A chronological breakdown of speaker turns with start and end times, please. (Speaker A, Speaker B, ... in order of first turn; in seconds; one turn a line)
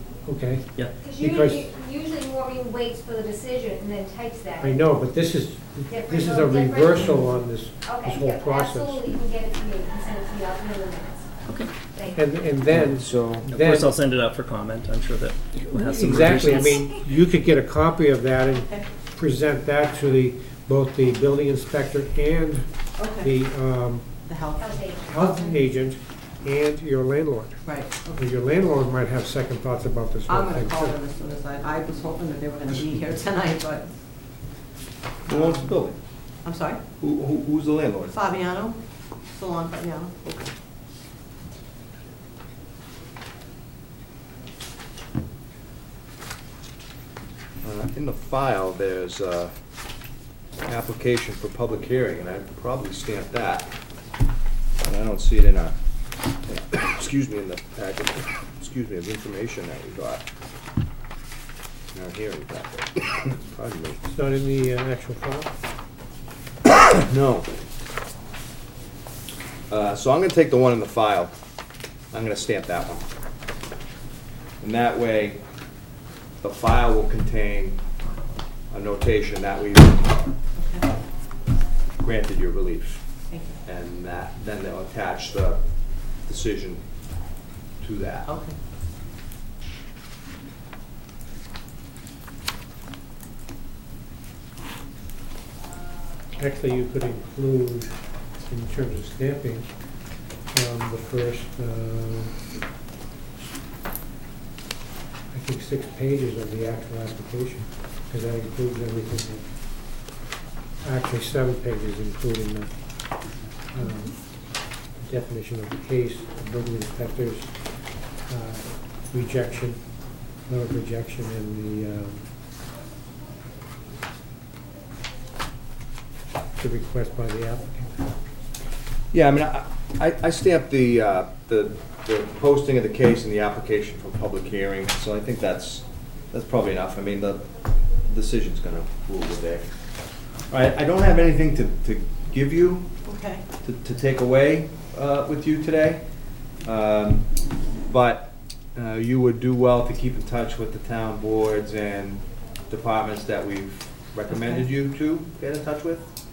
Speaker A: 0.2-1.7
Speaker B: 1.0-4.8
Speaker A: 4.6-9.2
Speaker B: 5.9-11.3
Speaker C: 11.5-11.7
Speaker B: 11.9-12.3
Speaker A: 12.1-14.0
Speaker D: 12.7-13.5
Speaker C: 13.5-16.9
Speaker A: 15.7-24.1
Speaker E: 18.5-18.8
Speaker E: 23.0-23.3
Speaker E: 24.3-25.6
Speaker B: 24.6-25.3
Speaker A: 25.0-31.0
Speaker E: 27.6-28.2
Speaker E: 30.3-33.9
Speaker D: 35.3-36.0
Speaker E: 35.3-35.7
Speaker E: 36.5-36.8
Speaker D: 37.0-38.1
Speaker E: 38.1-38.8
Speaker E: 39.3-40.2
Speaker D: 40.2-40.5
Speaker D: 47.6-49.5
Speaker D: 50.6-53.7
Speaker D: 54.8-55.8
Speaker D: 56.5-60.2
Speaker D: 61.9-64.0
Speaker A: 64.1-65.5
Speaker D: 67.0-67.5
Speaker D: 69.7-71.3
Speaker D: 72.1-73.1
Speaker D: 74.6-75.4
Speaker D: 76.4-77.8
Speaker D: 78.7-80.1
Speaker E: 80.6-80.9
Speaker D: 82.0-83.0
Speaker E: 83.3-83.6
Speaker D: 83.6-85.6
Speaker D: 86.2-86.9
Speaker D: 87.8-88.3
Speaker E: 88.2-88.5
Speaker A: 96.4-97.9
Speaker A: 98.5-99.7
Speaker A: 100.5-102.3
Speaker A: 105.3-109.5
Speaker A: 110.8-112.7
Speaker A: 113.7-117.5
Speaker A: 118.2-119.8
Speaker A: 120.4-122.2
Speaker A: 126.6-128.1
Speaker D: 129.1-137.5
Speaker D: 138.0-139.7
Speaker D: 140.5-142.9
Speaker E: 143.1-143.4
Speaker D: 143.6-147.3
Speaker D: 147.8-156.1
Speaker E: 154.3-154.6